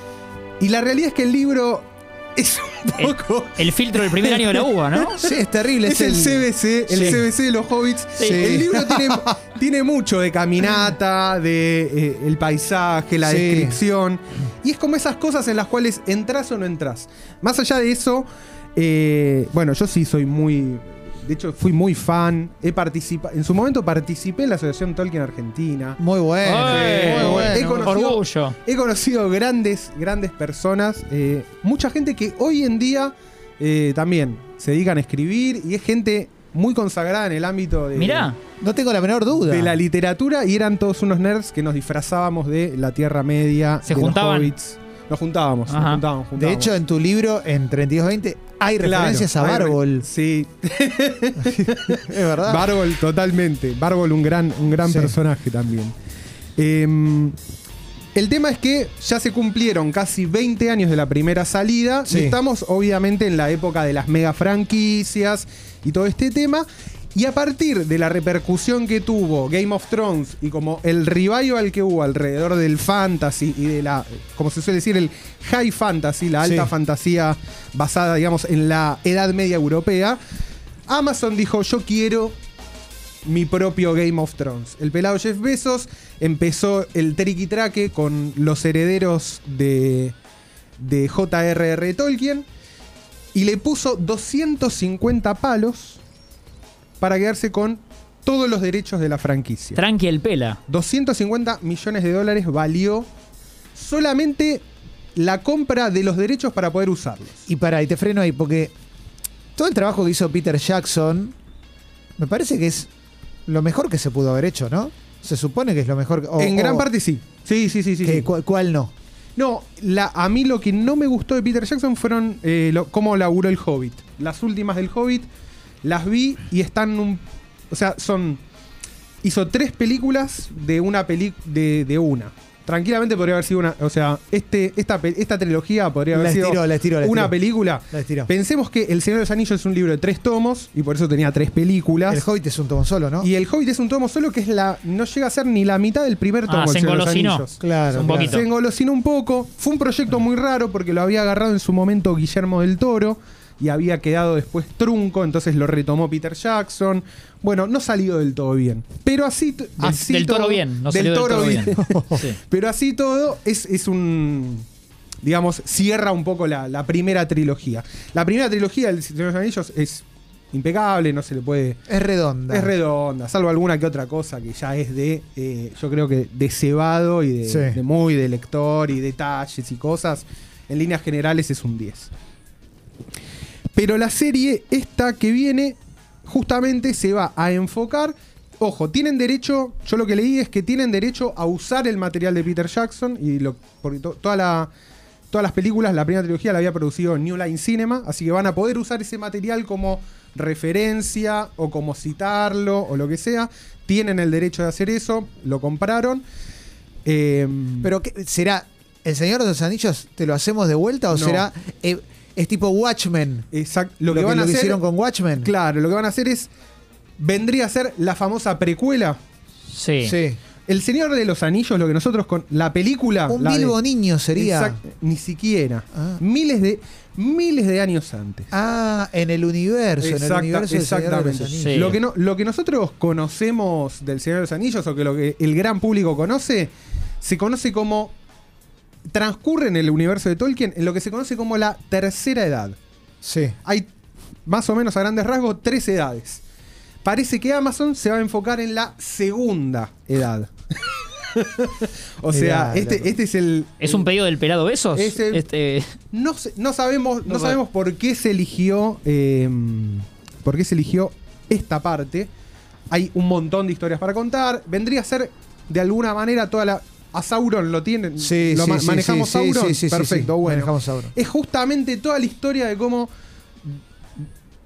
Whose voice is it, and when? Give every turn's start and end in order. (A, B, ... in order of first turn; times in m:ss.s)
0:00.6-0:05.3 A
0:03.0-0:05.2 B
0:05.2-0:07.3 C
0:05.8-0:26.0 A
0:07.0-0:07.2 B
0:08.2-0:08.6 B
0:08.2-0:09.4 C
0:13.2-0:13.8 C
0:26.0-0:27.9 C
0:26.4-0:28.6 B
0:26.5-0:38.3 A
0:38.0-0:38.4 B
0:38.6-0:39.8 C
0:39.3-0:46.8 A
0:43.8-0:44.5 B
0:45.7-0:46.0 B
0:46.4-0:50.1 C
0:48.8-0:56.0 A
0:51.4-0:52.8 C
0:54.8-0:55.2 C
0:56.6-0:57.4 A
0:58.2-1:20.2 A
1:02.1-1:02.4 C
1:16.4-1:16.7 C
1:20.9-1:22.4 A
1:23.2-1:30.2 A
1:30.8-1:32.5 A
1:33.3-1:36.0 A
1:37.0-1:39.8 A
1:39.8-1:40.6 B
1:40.7-1:43.1 A
1:43.8-1:44.6 A
1:45.2-1:47.5 A
1:47.5-1:48.7 C
1:49.6-1:51.4 C
1:52.2-1:52.9 C
1:53.5-1:56.9 C
1:56.4-1:58.3 A
1:58.0-1:58.9 C
1:59.4-2:05.3 A
2:05.8-2:08.4 A
2:09.2-2:22.2 A
2:16.1-2:18.3 C
2:22.1-2:23.3 C
2:23.2-2:44.7 A
2:26.5-2:28.5 B
2:27.6-2:28.4 C
2:39.8-2:42.4 B
2:41.8-2:42.2 C
2:45.2-2:51.8 A
2:51.9-2:52.7 C
2:52.5-3:02.1 A
2:57.5-2:57.8 C
3:03.7-3:14.7 A
3:15.3-3:26.2 A
3:27.0-3:27.9 A
3:27.8-3:33.5 C
3:31.1-3:31.5 A
3:33.5-3:34.8 A
3:34.1-3:35.5 C
3:35.4-3:36.5 A
3:37.2-3:39.2 A
3:39.7-3:40.1 B
3:40.0-3:40.4 C
3:40.7-3:43.8 A
3:43.3-3:44.8 C
3:44.3-3:48.5 A
3:48.5-3:52.0 C
3:50.0-3:58.1 A
3:51.6-3:52.0 B
3:59.1-4:02.8 A
4:03.2-4:03.6 C
4:03.6-4:03.9 A
4:04.5-4:06.4 A
4:07.0-4:14.1 A
4:12.3-4:13.2 C
4:13.8-4:15.9 B
4:15.0-4:15.4 A
4:16.1-4:22.3 A
4:17.3-4:17.6 B
4:22.9-4:33.1 A
4:28.2-4:31.1 C
4:33.7-4:34.2 A